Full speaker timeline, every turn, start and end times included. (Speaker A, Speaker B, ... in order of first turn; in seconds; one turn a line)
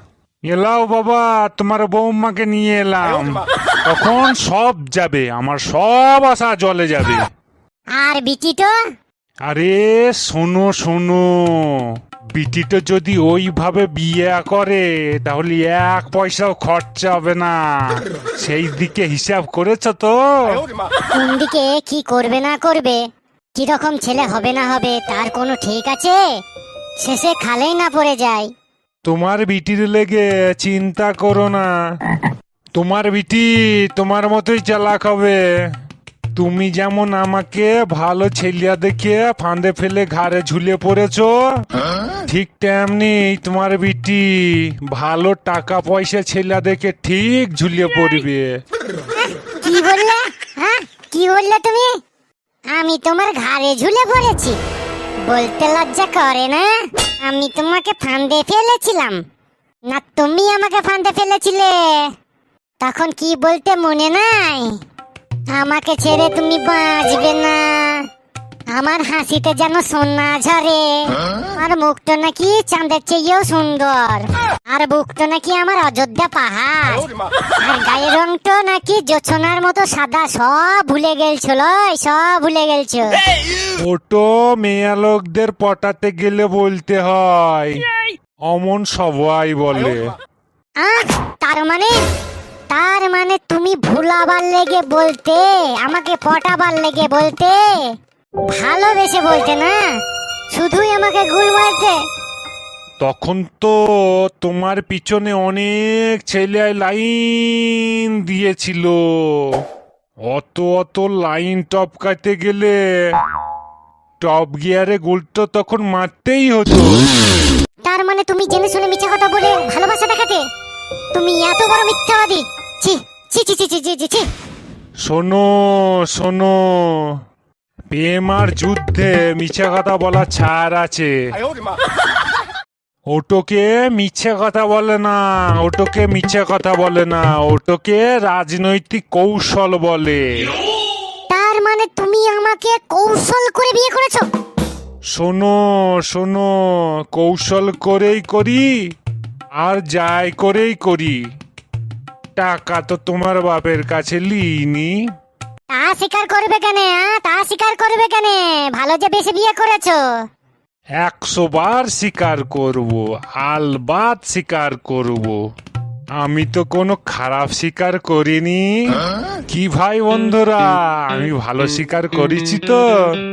Speaker A: 0.5-7.2
Speaker B: 8.0-8.7
Speaker A: 9.5-20.7
Speaker B: 21.1-23.0
Speaker B: 23.6-26.2
Speaker B: 27.0-28.5
Speaker A: 29.0-31.7
Speaker A: 32.7-35.4
Speaker A: 36.4-41.6
Speaker A: 42.3-48.6
Speaker B: 49.1-51.9
Speaker B: 52.7-54.6
Speaker B: 55.3-59.2
Speaker B: 59.9-62.1
Speaker B: 62.8-64.8
Speaker B: 65.5-68.1
Speaker B: 68.7-83.2
Speaker A: 83.8-87.8
Speaker A: 88.5-90.1
Speaker B: 90.8-92.0
Speaker B: 92.7-97.9
Speaker B: 98.5-99.8
Speaker B: 100.5-102.0
Speaker A: 103.0-109.6
Speaker A: 110.3-113.2
Speaker A: 114.2-117.0
Speaker B: 117.8-120.4
Speaker B: 121.1-124.3
Speaker A: 125.0-127.2
Speaker A: 127.9-131.3
Speaker A: 133.1-140.5
Speaker B: 141.3-144.3
Speaker A: 145.1-148.8
Speaker A: 149.6-151.2
Speaker A: 152.3-155.0
Speaker B: 155.7-160.0
Speaker A: 161.0-165.4
Speaker A: 166.2-173.2